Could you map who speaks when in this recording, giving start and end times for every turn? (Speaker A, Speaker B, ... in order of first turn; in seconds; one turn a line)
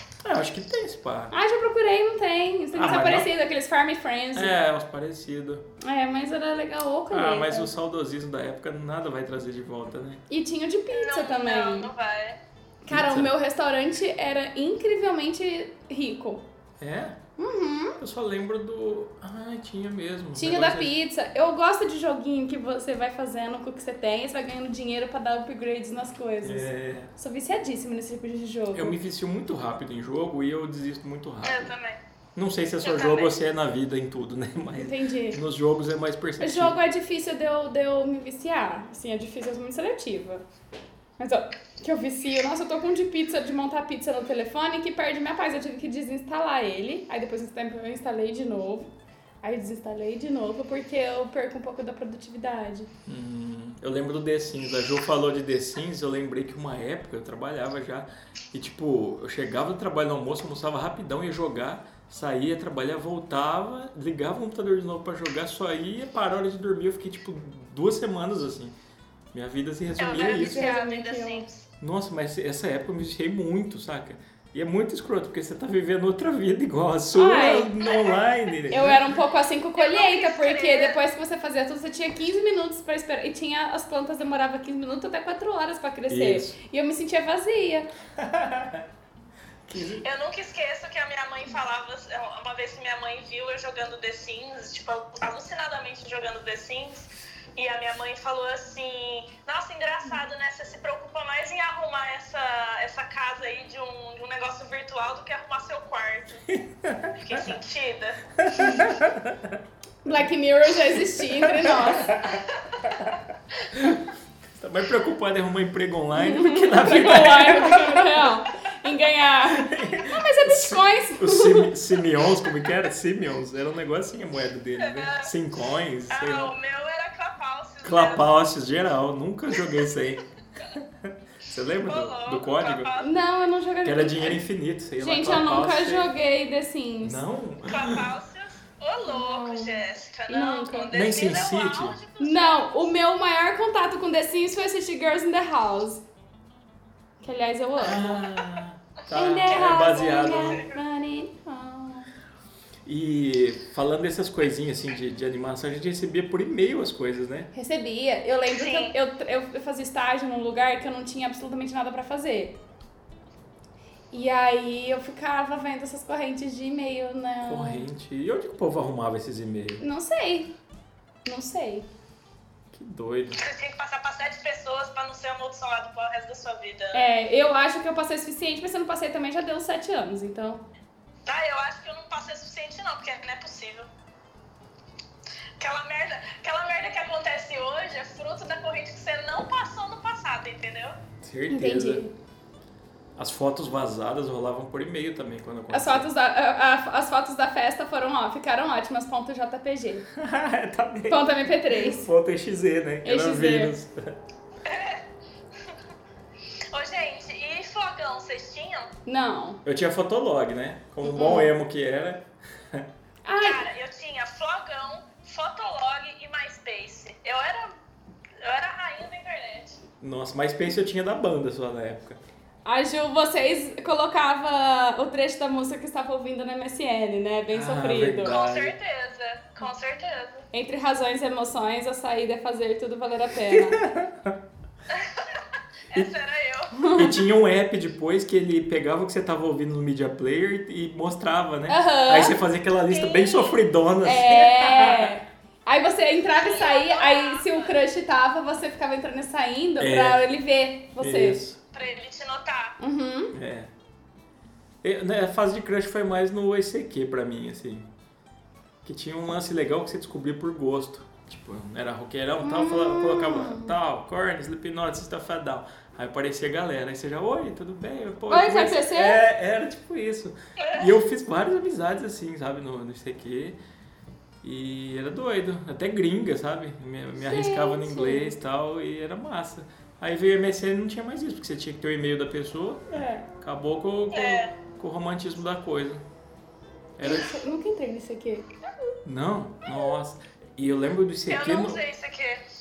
Speaker A: 0.2-1.3
Speaker B: 1.3-4.6
Speaker A: 2.7-3.3
Speaker A: 4.3-5.7
Speaker B: 5.8-7.7
Speaker A: 7.1-10.2
Speaker B: 10.3-11.9
Speaker C: 10.9-12.4
Speaker B: 12.8-16.4
Speaker A: 12.9-13.3
Speaker A: 16.8-17.2
Speaker B: 17.4-18.0
Speaker A: 18.0-20.9
Speaker B: 20.4-29.0
Speaker A: 26.4-27.1
Speaker A: 28.7-31.7
Speaker C: 31.4-32.0
Speaker A: 32.4-36.8
Speaker C: 32.8-33.3
Speaker B: 34.8-35.4
Speaker B: 36.4-40.4
Speaker B: 41.2-48.9
Speaker B: 49.4-52.9
Speaker A: 53.1-68.7
Speaker A: 69.3-70.7
Speaker C: 70.0-71.7
Speaker B: 70.4-71.5
Speaker A: 71.8-79.0
Speaker B: 77.1-77.7
Speaker C: 77.8-78.2
Speaker B: 78.7-87.9
Speaker C: 79.8-81.0
Speaker A: 86.1-86.5
Speaker A: 88.2-88.8
Speaker A: 89.7-90.0
Speaker C: 90.0-106.4
Speaker A: 106.5-107.4
Speaker C: 107.2-108.2
Speaker A: 108.4-109.6
Speaker B: 110.0-112.1
Speaker A: 111.3-113.1
Speaker A: 113.7-118.3
Speaker B: 116.2-121.8
Speaker A: 119.5-126.5
Speaker C: 124.8-125.3
Speaker C: 126.1-128.3
Speaker A: 127.8-132.9
Speaker C: 131.8-133.2
Speaker B: 133.0-134.4
Speaker A: 133.8-136.1
Speaker B: 135.0-137.2
Speaker A: 137.0-138.1
Speaker C: 137.7-142.8
Speaker B: 139.1-141.0
Speaker A: 140.9-142.0
Speaker B: 142.2-146.0
Speaker B: 147.2-148.3
Speaker A: 147.8-150.6
Speaker B: 149.1-152.1
Speaker C: 149.5-149.8
Speaker A: 152.8-157.5
Speaker B: 157.5-162.6
Speaker C: 158.5-158.9
Speaker B: 164.1-167.9
Speaker A: 167.5-169.8
Speaker B: 169.8-170.5
Speaker B: 171.2-171.9
Speaker A: 172.7-173.4
Speaker C: 173.4-177.0
Speaker B: 176.9-180.6
Speaker C: 181.3-183.9
Speaker C: 185.6-191.0
Speaker A: 191.2-192.0
Speaker B: 191.5-192.1
Speaker A: 193.2-196.1
Speaker B: 195.7-200.1
Speaker A: 200.2-204.2
Speaker B: 201.1-202.1
Speaker B: 203.0-203.7
Speaker C: 204.7-205.0
Speaker C: 206.7-208.9
Speaker B: 209.1-209.6
Speaker A: 209.6-212.9
Speaker B: 211.0-211.5
Speaker B: 213.2-213.6
Speaker C: 213.4-217.8
Speaker C: 218.4-219.8
Speaker A: 220.0-222.2
Speaker B: 222.7-228.4
Speaker A: 227.5-228.7
Speaker C: 228.2-230.5
Speaker B: 230.5-233.8
Speaker A: 233.5-234.3
Speaker C: 234.9-236.9
Speaker B: 236.8-237.2
Speaker A: 236.9-245.1
Speaker B: 241.7-242.4
Speaker C: 242.9-243.6
Speaker B: 244.0-251.4
Speaker C: 246.3-247.8
Speaker A: 249.8-250.3
Speaker A: 251.0-251.6
Speaker C: 251.7-252.8
Speaker B: 252.8-253.3
Speaker A: 253.3-253.7
Speaker A: 254.8-257.9
Speaker A: 258.8-273.6
Speaker B: 262.4-263.7
Speaker B: 268.3-269.2
Speaker C: 270.6-270.9
Speaker A: 274.4-286.0
Speaker B: 277.2-278.3
Speaker B: 282.9-283.3
Speaker C: 284.1-284.5
Speaker A: 287.0-287.3
Speaker B: 287.0-288.9
Speaker A: 289.1-291.8
Speaker C: 291.3-292.4